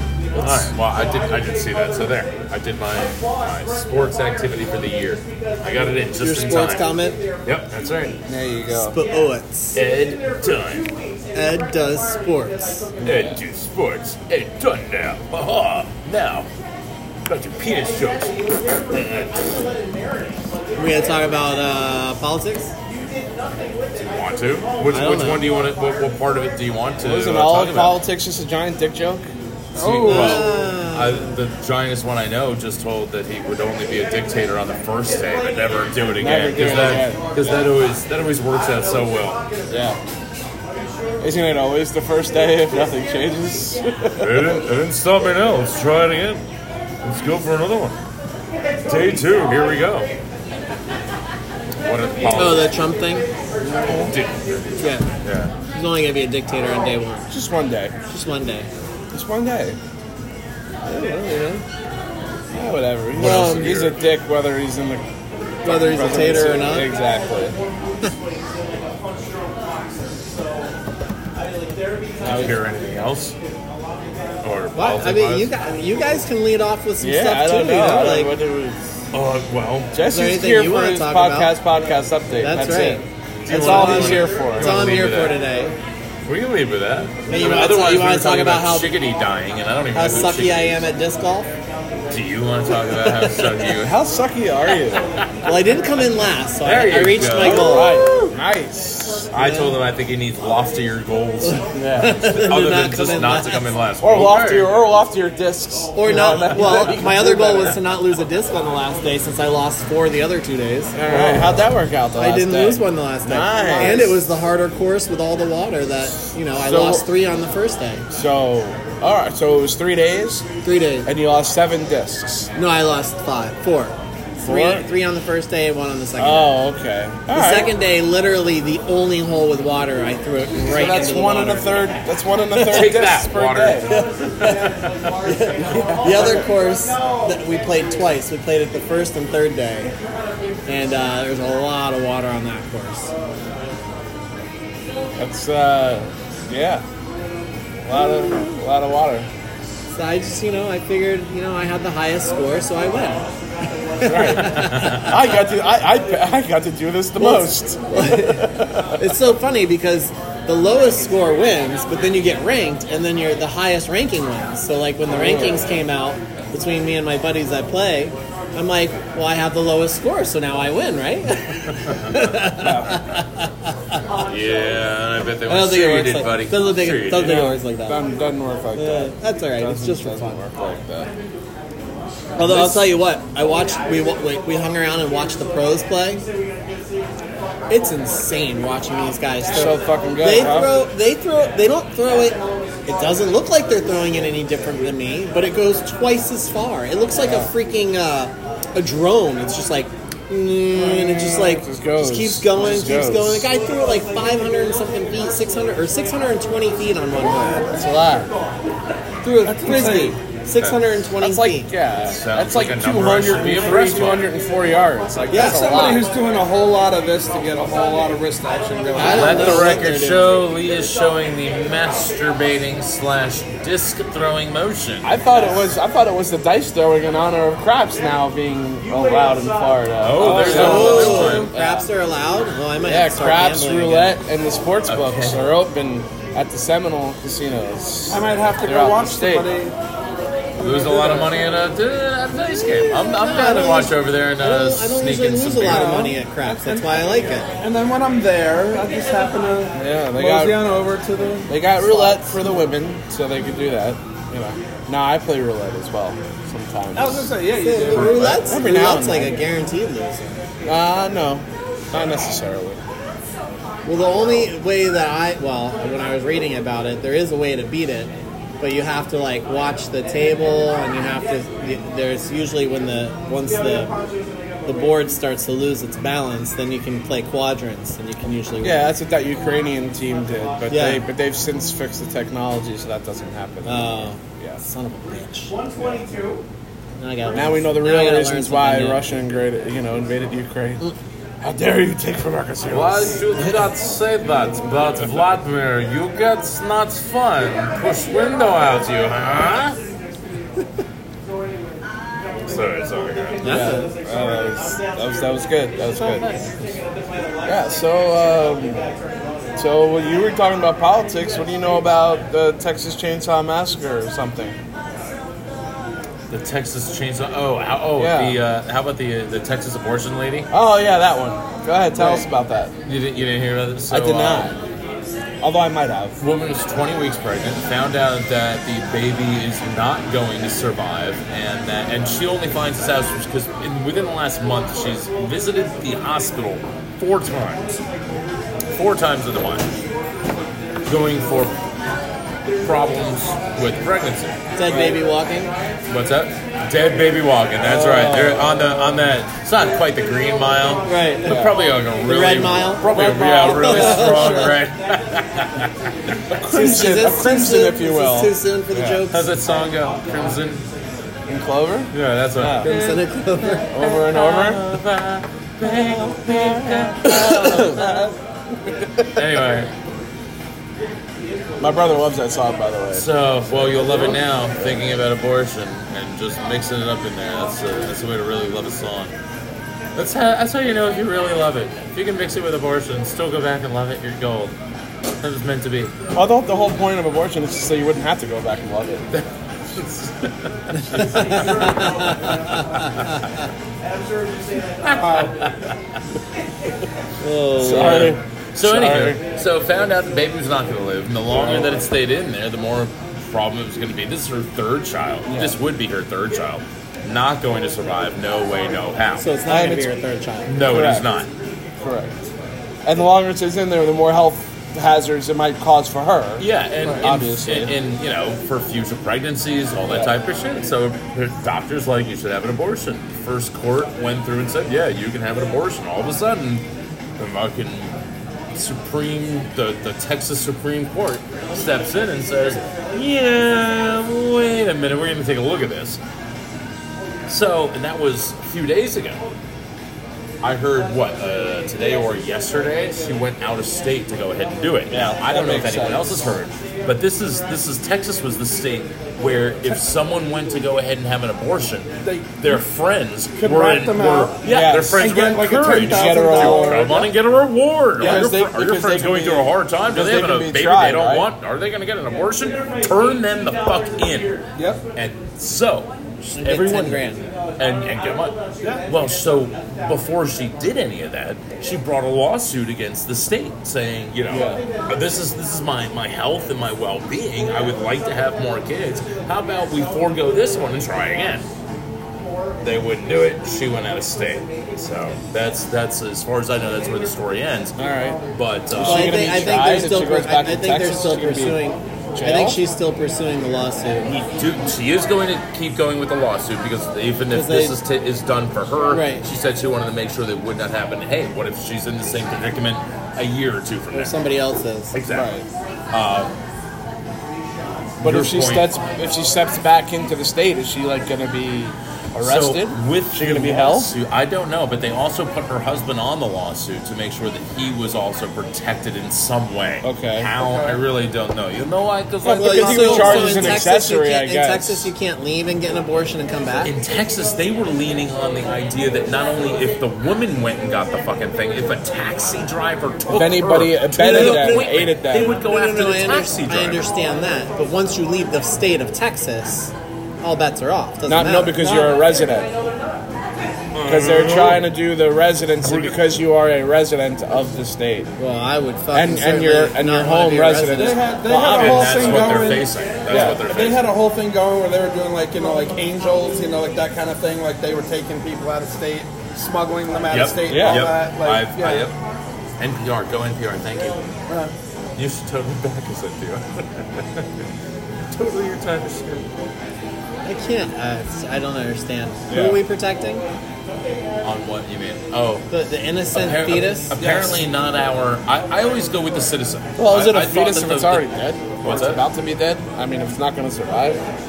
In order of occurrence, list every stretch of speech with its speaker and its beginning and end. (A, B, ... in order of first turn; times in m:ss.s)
0:00.3-0:00.7 A
0:00.4-0:06.9 B
0:06.2-0:07.2 C
0:07.4-0:08.2 B
0:08.2-0:09.0 A
0:08.7-0:09.8 C
0:09.7-0:10.9 B
0:11.3-0:12.9 C
0:13.0-0:16.5 B
0:13.0-0:13.4 A
0:17.2-0:19.7 B
0:20.8-0:22.7 C
0:23.9-0:28.0 B
0:24.9-0:25.4 C
0:27.0-0:29.3 A
0:29.7-0:39.4 B
0:29.8-0:30.5 D
0:30.0-0:31.4 C
0:36.2-0:37.6 A
0:39.7-0:40.0 A
0:41.2-0:44.5 A
0:44.2-0:46.4 B
0:47.0-0:48.0 B
0:48.8-0:50.1 B
0:51.8-0:52.7 B
0:52.2-0:53.3 C
0:53.6-0:54.1 A
0:53.8-0:55.5 B
0:54.8-0:55.1 C
0:55.7-0:57.3 C
0:57.3-0:58.0 A
0:58.1-0:58.7 C
0:59.1-0:59.8 A
1:00.8-1:01.6 A
1:02.5-1:05.1 A
1:03.1-1:04.0 B
1:05.6-1:07.6 A
1:05.6-1:06.9 C
1:12.2-1:13.3 B
1:12.2-1:12.6 A
1:14.4-1:15.5 B
1:14.7-1:18.3 C
1:17.0-1:19.0 A
1:19.1-1:19.9 B
1:19.9-1:24.8 A
1:20.0-1:21.5 C
1:22.4-1:25.7 C
1:23.4-1:25.4 B
1:26.2-1:30.8 B
1:27.3-1:28.9 C
1:29.9-1:31.5 C
1:32.1-1:34.0 B
1:32.9-1:33.6 C
1:33.7-1:35.1 A
1:35.4-1:38.0 C
1:36.6-1:38.1 B
1:37.3-1:39.8 A
1:39.3-1:44.7 B
1:41.5-1:43.7 C
1:41.7-1:42.2 A
1:44.0-1:47.8 A
1:45.9-1:51.3 C
1:50.9-1:54.2 A
1:52.1-1:58.0 C
1:56.6-1:57.1 A
1:58.1-2:00.4 A
2:00.6-2:01.1 C
2:01.0-2:02.5 A
2:02.5-2:06.5 C
2:04.4-2:04.8 A
2:06.2-2:07.7 A
2:07.3-2:11.8 C
2:10.6-2:13.9 A
2:12.5-2:12.8 C
2:12.7-2:15.1 B
2:13.9-2:14.6 C
2:15.2-2:19.9 C
2:15.6-2:16.5 A
2:20.6-2:23.1 C
2:25.2-2:26.8 A
2:27.8-2:29.3 A
2:29.9-2:33.3 C
2:34.0-2:35.1 C
2:34.0-2:39.2 A
2:34.4-2:35.1 B
2:37.2-2:54.0 C
2:45.1-2:45.7 A
2:51.9-2:52.1 B
2:52.6-2:53.0 A
2:54.2-2:57.4 B
2:55.5-2:58.0 C
2:57.2-3:01.1 A
2:58.7-3:00.4 C
3:02.4-3:06.2 C
3:02.4-3:03.0 A
3:07.7-3:27.7 C
3:09.5-3:10.7 A
3:17.2-3:17.5 A
3:20.7-3:23.5 A
3:27.7-3:28.3 A
3:29.2-3:30.2 D
3:29.5-3:31.7 C
3:30.6-3:30.9 B
3:31.2-3:36.0 A
3:32.0-3:34.3 B
3:35.3-3:36.0 C
3:35.3-3:39.8 D
3:38.9-3:40.4 C
3:39.1-3:45.1 B
3:45.0-3:51.9 A
3:50.0-3:51.5 B
3:50.3-3:51.1 D
3:50.3-3:54.2 C
3:52.8-3:59.5 A
3:54.8-3:55.4 B
3:58.1-3:59.7 D
4:00.6-4:06.0 B
4:00.6-4:01.3 D
4:02.9-4:07.5 C
4:05.6-4:12.4 D
4:09.7-4:10.7 A
4:11.5-4:17.3 A
4:16.9-4:18.3 D
4:17.6-4:20.4 C
4:17.9-4:18.4 B
4:18.4-4:19.4 A
4:20.6-4:22.8 A
4:23.8-4:34.0 C
4:34.6-4:38.9 C
4:38.6-4:44.6 A
4:40.7-4:41.0 C
4:43.6-4:45.5 C
4:47.0-4:49.0 C
4:47.3-4:50.8 A
4:51.4-4:53.2 A
4:52.7-4:59.8 B
5:02.5-5:03.6 B
5:03.4-5:03.9 C
5:03.4-5:06.3 A
5:06.0-5:06.5 B
5:07.4-5:08.9 A
5:09.6-5:14.6 A
5:16.3-5:20.5 B
5:18.0-5:18.4 A
5:20.5-5:22.7 A
5:22.8-5:24.6 B
5:23.9-5:24.6 A
5:25.4-5:26.2 A
5:26.2-5:37.8 B
5:38.7-5:39.6 B
5:40.8-5:41.6 B
5:42.6-5:44.4 B
5:44.6-5:45.5 C
5:44.7-5:45.0 A
5:45.9-5:55.9 B
5:47.6-5:48.8 A
5:50.8-5:51.4 C
5:51.3-5:51.5 A
5:52.0-5:54.6 C
5:52.9-5:54.1 A
5:52.9-5:54.4 D
5:56.3-5:59.0 A
5:56.5-5:59.3 C
5:58.7-6:00.6 B
6:01.3-6:02.7 A
6:01.9-6:03.0 B
6:02.6-6:03.8 C
6:03.7-6:04.6 A
6:03.8-6:08.0 B
6:07.0-6:07.8 A
6:08.8-6:09.2 A
6:09.2-6:09.7 B
6:11.6-6:15.0 A
6:12.9-6:19.1 B
6:20.0-6:24.5 B
6:25.2-6:25.9 B
6:26.1-6:29.0 A
6:29.1-6:33.0 B
6:30.9-6:32.6 C
6:34.8-6:35.8 B
6:37.2-6:38.1 C
6:37.6-6:39.2 A
6:37.6-6:49.2 B
6:41.3-6:41.7 A
6:45.2-6:45.6 A
6:49.2-6:50.5 C
6:49.5-6:49.9 A
6:50.4-6:51.3 B
6:50.6-6:51.1 A
6:51.8-6:52.2 A
6:52.8-6:57.7 A
6:56.4-7:06.6 B
6:59.9-7:00.1 A
7:07.2-7:08.0 B
7:08.5-7:16.0 B
7:17.3-7:19.2 B
7:20.4-7:44.4 B
7:24.9-7:26.4 A
7:32.1-7:32.5 D
7:33.4-7:37.1 D
7:34.4-7:37.1 A
7:38.0-7:41.3 A
7:38.0-7:38.3 D
7:44.6-7:44.8 D
7:44.9-7:47.0 B
7:46.2-7:47.2 C
7:47.6-8:01.4 B
7:54.3-7:54.6 A
8:02.6-8:07.8 B
8:07.8-8:08.2 A
8:08.3-8:09.1 B
8:08.7-8:11.6 A
8:08.8-8:14.1 C
8:12.1-8:12.6 A
8:14.0-8:24.1 B
8:17.3-8:17.8 C
8:18.9-8:19.2 C
8:23.9-8:24.9 C
8:24.9-8:25.3 B
8:25.1-8:25.4 A
8:25.9-8:26.3 B
8:28.0-8:33.9 A
8:28.0-8:28.7 B
8:32.1-8:43.6 B
8:39.8-8:40.3 A
8:40.4-8:40.8 D
8:42.2-8:44.9 A
8:42.4-8:46.7 C
8:46.6-8:56.8 B
8:53.1-8:55.4 A
8:54.0-8:54.6 C
8:55.4-9:01.8 C
9:01.0-9:02.5 A
9:01.6-9:01.9 D
9:03.7-9:04.6 B
9:03.8-9:08.1 A
9:05.6-9:06.0 B
9:08.2-9:11.1 C
9:08.9-9:12.4 A
9:10.7-9:21.9 D
9:11.5-9:13.9 B
9:13.1-9:13.4 A
9:20.1-9:22.0 B
9:20.5-9:20.9 A
9:22.6-9:24.1 B
9:24.3-9:24.5 D
9:25.0-9:27.3 B
9:28.1-9:29.3 B
9:30.2-9:33.2 C
9:32.3-9:32.6 A
9:34.2-9:35.5 B
9:35.5-9:37.0 C
9:36.1-9:41.1 B
9:37.0-9:37.4 D
9:39.8-9:44.0 A
9:41.6-9:42.0 B